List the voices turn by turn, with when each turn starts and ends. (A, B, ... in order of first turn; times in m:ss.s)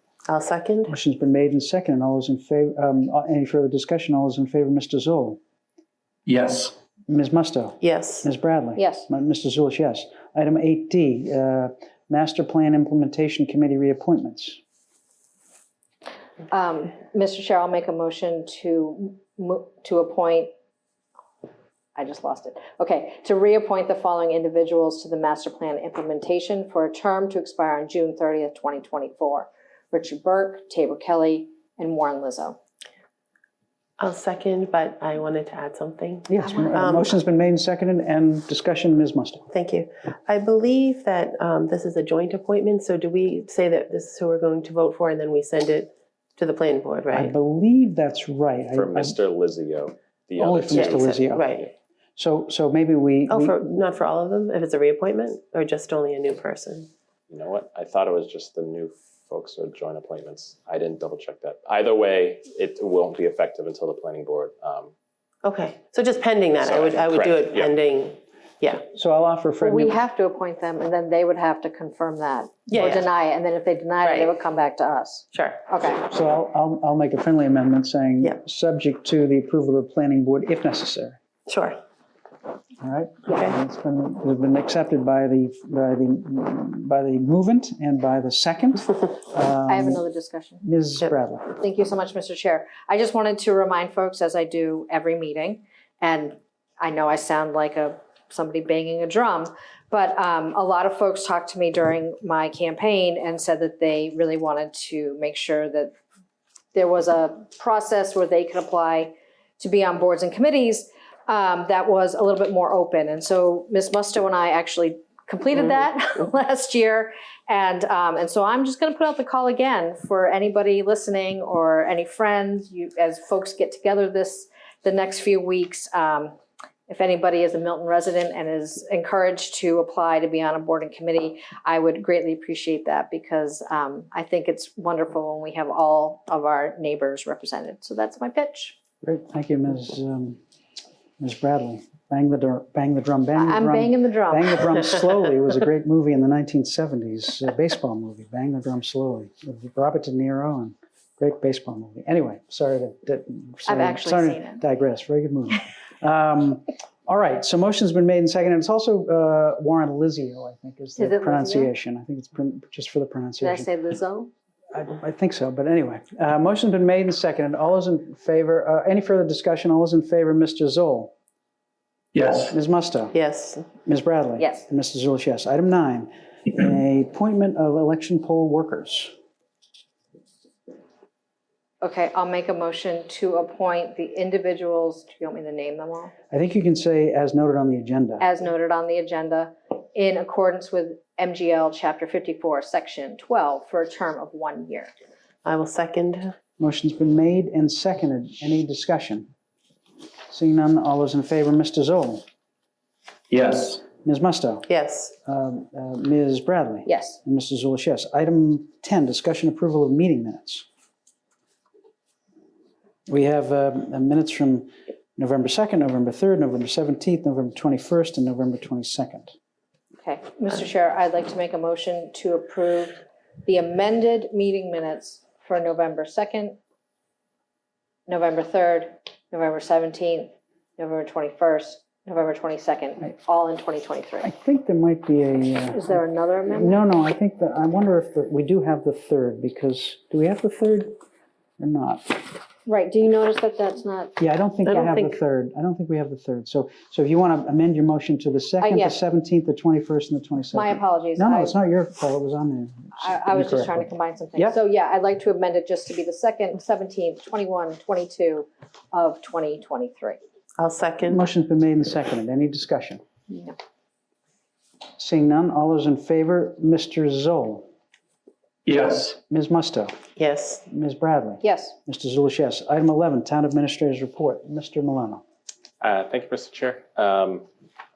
0:00.3-0:00.9 A
0:00.9-0:05.4 B
0:06.3-0:06.7 C
0:07.1-0:14.6 B
0:07.8-0:08.3 A
0:08.8-0:09.1 D
0:16.5-0:20.5 D
0:21.9-0:32.6 D
0:34.0-0:37.1 A
0:36.3-0:39.5 B
0:39.5-0:47.3 A
0:47.1-0:49.2 B
0:48.7-0:51.7 E
0:50.4-0:51.6 B
0:50.7-0:51.7 A
0:52.2-0:53.6 B
0:53.3-0:56.9 A
0:57.3-1:04.9 E
1:05.4-1:08.8 A
1:06.6-1:07.8 E
1:08.9-1:10.0 B
1:09.6-1:16.0 D
1:12.7-1:13.0 A
1:14.0-1:14.3 A
1:15.3-1:15.6 A
1:16.0-1:21.2 B
1:21.5-1:21.8 A
1:22.8-1:30.0 B
1:29.7-1:30.6 D
1:30.6-1:31.5 B
1:31.6-1:45.9 D
1:46.7-2:06.4 D
2:06.9-2:18.8 D
2:19.0-2:20.4 B
2:21.2-2:43.7 B
2:23.3-2:24.7 D
2:33.6-2:34.6 D
2:41.0-2:41.7 D
2:43.4-2:44.3 D
2:44.7-2:51.1 B
2:52.1-2:52.5 C
2:52.5-2:53.1 B
2:53.1-2:53.6 A
2:53.8-2:59.1 B
2:54.4-2:54.6 D
3:01.8-3:06.1 D
3:06.3-3:08.2 B
3:08.2-3:14.9 D
3:15.4-3:16.3 A
3:16.6-3:19.3 B
3:20.3-3:22.2 B
3:23.3-3:23.8 C
3:23.9-3:24.7 B
3:24.7-3:25.1 A
3:25.2-3:30.6 B
3:26.8-3:27.2 D
3:33.1-3:39.3 B
3:40.0-3:46.6 D
3:48.1-3:54.3 D
3:54.2-4:01.0 B
3:55.7-3:56.8 D
4:01.6-4:02.2 B
4:02.6-4:04.2 D
4:04.2-4:14.6 B
4:04.7-4:05.0 A
4:08.6-4:09.0 D
4:10.5-4:11.6 D
4:12.9-4:20.2 D
4:20.6-4:21.2 A
4:21.1-4:23.0 B
4:23.3-4:23.6 D
4:25.0-4:27.7 B
4:28.6-4:29.2 C
4:29.2-4:29.9 B
4:30.2-4:30.6 A
4:30.7-4:35.2 B
4:31.4-4:31.8 D
4:35.8-4:37.4 E